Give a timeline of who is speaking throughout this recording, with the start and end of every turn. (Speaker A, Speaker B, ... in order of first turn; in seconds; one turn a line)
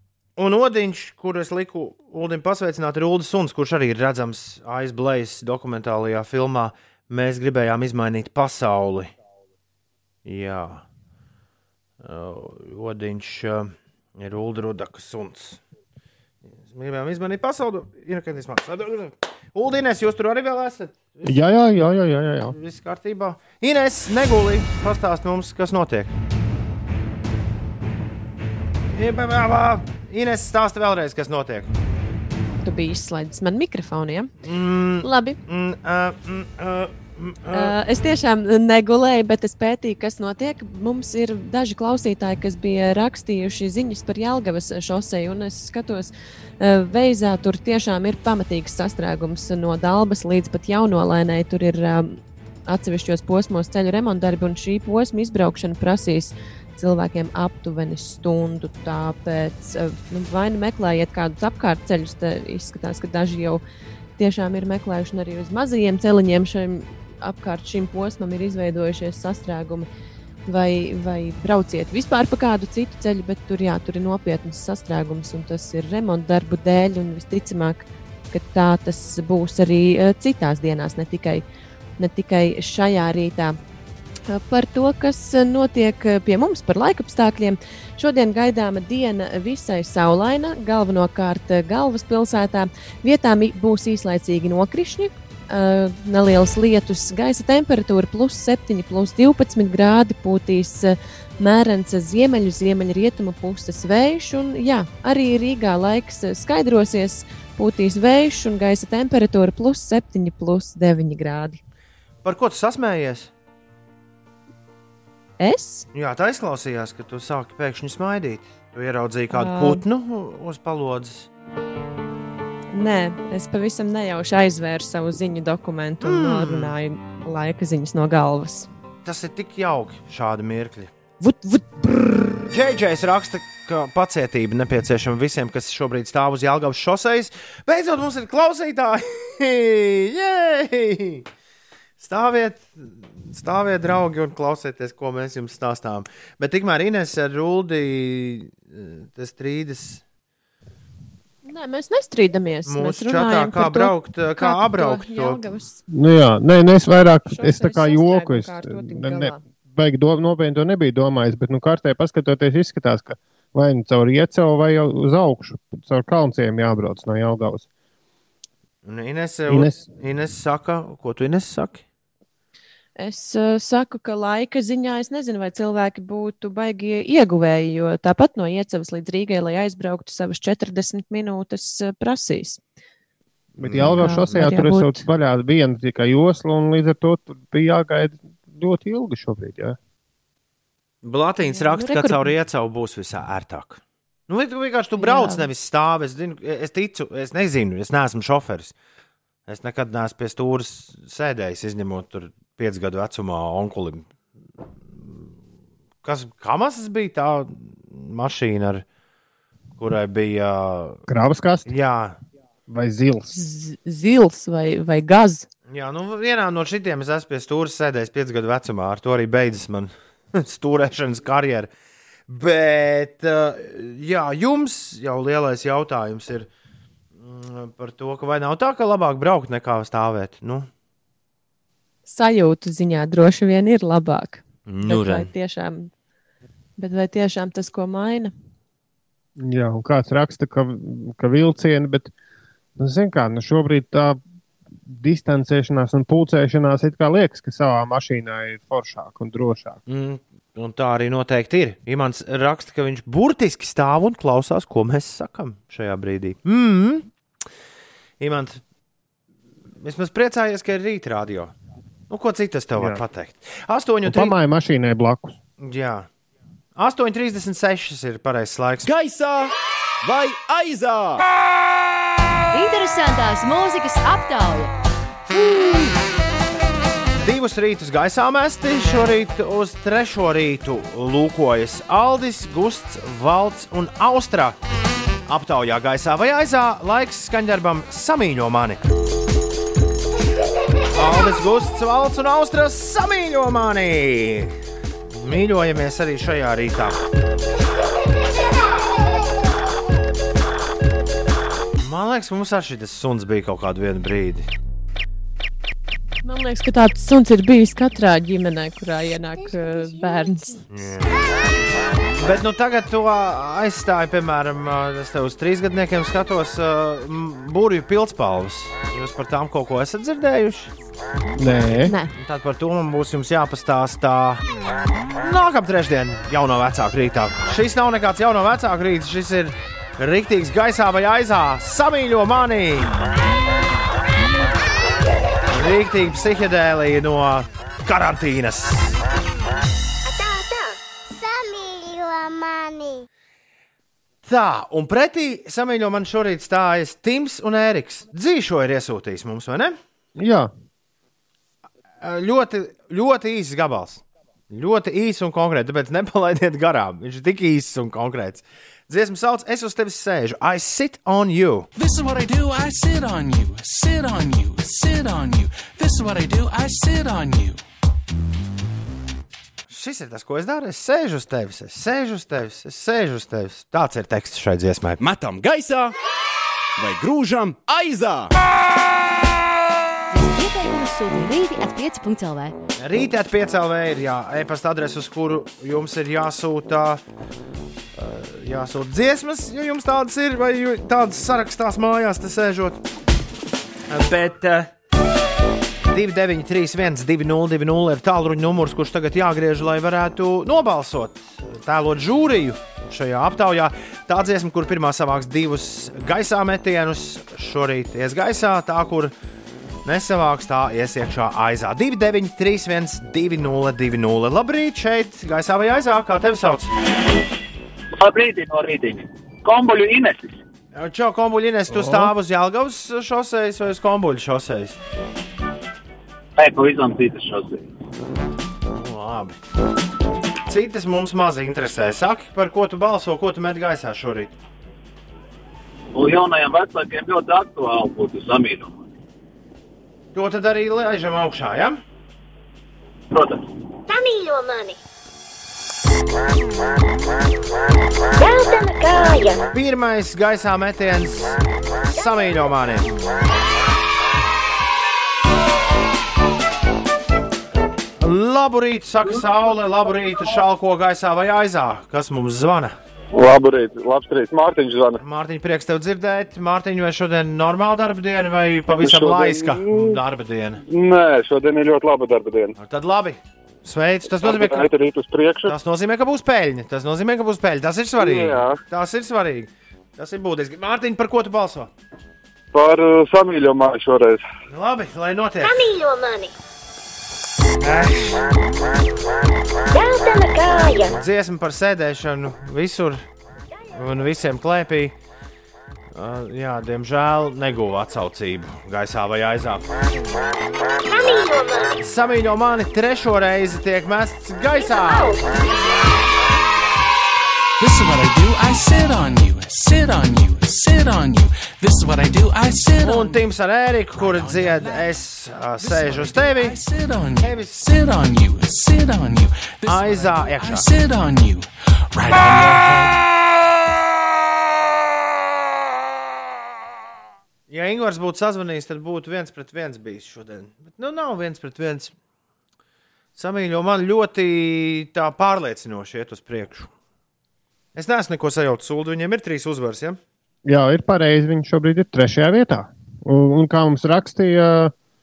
Speaker A: 0.4-9.1
Speaker A: 10.2-10.8
Speaker A: 12.0-15.6
Speaker A: 16.7-21.4
Speaker B: 21.2-22.6
Speaker A: 22.5-26.1
Speaker A: 28.9-31.7
Speaker C: 32.6-34.3
Speaker A: 34.4-37.7
Speaker C: 35.0-35.4
Speaker C: 37.5-63.6
Speaker C: 64.2-69.9
Speaker C: 70.5-81.4
Speaker C: 82.0-83.6
Speaker C: 84.3-111.6
Speaker A: 112.2-113.3
Speaker C: 115.4-115.8
Speaker A: 115.9-121.3
Speaker C: 119.3-119.8
Speaker C: 122.7-128.7
Speaker A: 126.0-126.7
Speaker A: 129.0-130.9
Speaker C: 131.2-132.4
Speaker A: 132.5-141.3
Speaker A: 142.0-150.0
Speaker C: 151.4-155.8
Speaker A: 152.7-155.4
Speaker B: 155.9-167.7
Speaker C: 157.2-159.4
Speaker A: 168.8-171.8
Speaker B: 169.5-169.8
Speaker C: 173.0-182.6
Speaker B: 183.6-189.8
Speaker A: 183.6-184.0
Speaker C: 183.9-185.1
Speaker A: 191.0-198.7
Speaker C: 191.5-192.3
Speaker C: 195.0-195.5
Speaker A: 199.5-204.1
Speaker A: 206.0-208.8
Speaker A: 209.8-211.0
Speaker B: 211.1-211.7
Speaker A: 211.7-212.2
Speaker B: 212.7-213.3
Speaker C: 213.3-215.5
Speaker A: 215.7-221.7
Speaker A: 222.3-226.5
Speaker A: 227.2-230.7
Speaker C: 232.1-235.9
Speaker A: 234.7-235.3
Speaker C: 236.8-238.3
Speaker B: 239.4-242.1
Speaker B: 242.8-244.2
Speaker B: 244.8-249.8
Speaker A: 249.9-257.1
Speaker A: 258.2-258.6
Speaker A: 259.8-261.5
Speaker A: 262.1-264.3
Speaker B: 264.0-265.4
Speaker A: 265.6-266.1
Speaker A: 266.8-268.9
Speaker D: 268.8-271.2
Speaker E: 272.5-274.7
Speaker A: 277.2-284.6
Speaker A: 285.3-288.8
Speaker A: 290.9-294.5
Speaker A: 295.1-297.0
Speaker A: 301.8-304.5
Speaker C: 306.2-310.6
Speaker A: 310.7-311.1
Speaker A: 312.2-320.7
Speaker B: 321.4-321.9
Speaker A: 322.1-324.4
Speaker A: 325.2-332.9
Speaker A: 335.5-339.0
Speaker F: 340.1-343.0
Speaker A: 344.2-349.8
Speaker B: 350.2-350.5
Speaker A: 352.0-361.7
Speaker G: 361.8-367.6
Speaker A: 369.7-375.0
Speaker D: 375.0-375.9
Speaker D: 376.8-378.3
Speaker E: 380.1-382.5
Speaker A: 382.8-387.0
Speaker A: 387.9-392.8
Speaker A: 393.9-394.7
Speaker A: 395.9-409.1
Speaker A: 409.8-416.7
Speaker H: 418.0-420.2
Speaker A: 420.7-424.8
Speaker B: 421.7-422.1
Speaker H: 426.4-427.6
Speaker A: 428.7-429.3
Speaker A: 430.5-434.3
Speaker H: 435.9-438.7
Speaker A: 440.1-441.8
Speaker H: 443.1-443.4
Speaker F: 443.9-444.8
Speaker F: 448.2-449.4
Speaker A: 449.5-452.9
Speaker A: 458.0-462.7
Speaker I: 463.1-465.0
Speaker A: 465.0-470.6
Speaker I: 468.7-470.0
Speaker I: 470.7-472.5
Speaker A: 472.6-474.7
Speaker I: 474.2-475.5
Speaker A: 475.4-481.7
Speaker I: 478.0-478.6
Speaker I: 482.5-484.2
Speaker A: 484.5-485.6
Speaker F: 485.4-486.3
Speaker A: 487.6-488.2
Speaker F: 489.7-490.9
Speaker A: 490.9-493.0
Speaker A: 493.7-494.9
Speaker A: 495.9-499.6
Speaker F: 500.9-501.7
Speaker A: 501.8-505.2
Speaker F: 504.6-505.2
Speaker G: 507.6-513.2
Speaker A: 512.8-516.6
Speaker G: 513.9-514.9
Speaker G: 515.6-523.0
Speaker A: 517.2-517.7
Speaker A: 519.6-520.7
Speaker A: 527.5-531.9
Speaker A: 533.1-536.7
Speaker A: 537.7-540.0
Speaker B: 540.5-544.7